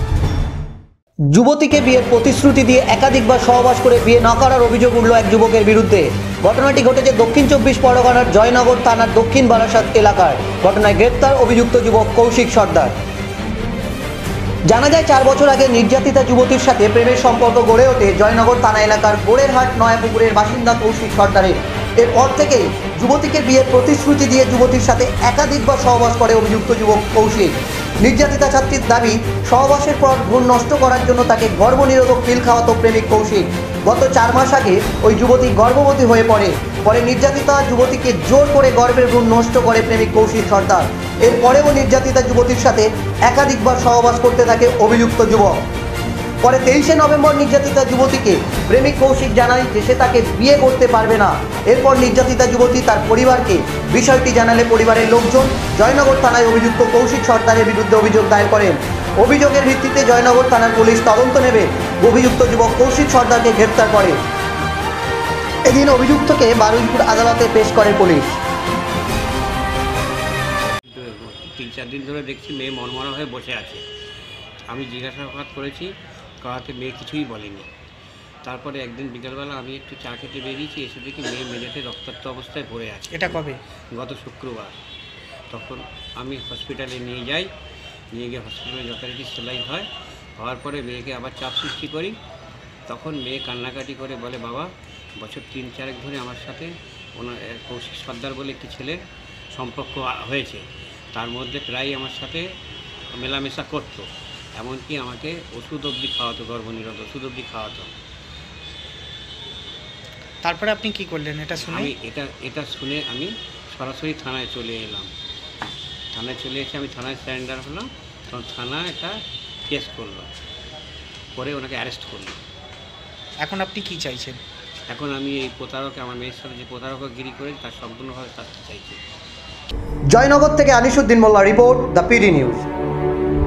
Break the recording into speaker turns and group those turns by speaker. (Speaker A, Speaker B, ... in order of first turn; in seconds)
Speaker A: 1.3-12.9, 14.7-45.6, 46.4-64.2, 65.7-68.4, 130.1-132.6
Speaker B: 70.9-73.8, 74.7-75.9, 76.4-77.7, 78.5-84.7, 85.5-87.5, 88.1-89.9, 90.4-92.1, 92.9-94.7, 95.2-99.0, 99.5-100.6, 101.2-102.4, 103.2-104.1, 104.6-107.9, 111.5-115.1, 116.1-119.2, 119.7-120.3, 121.4-122.4, 124.9-129.0
Speaker C: 83.1-83.6, 110.4-111.9, 123.4-124.4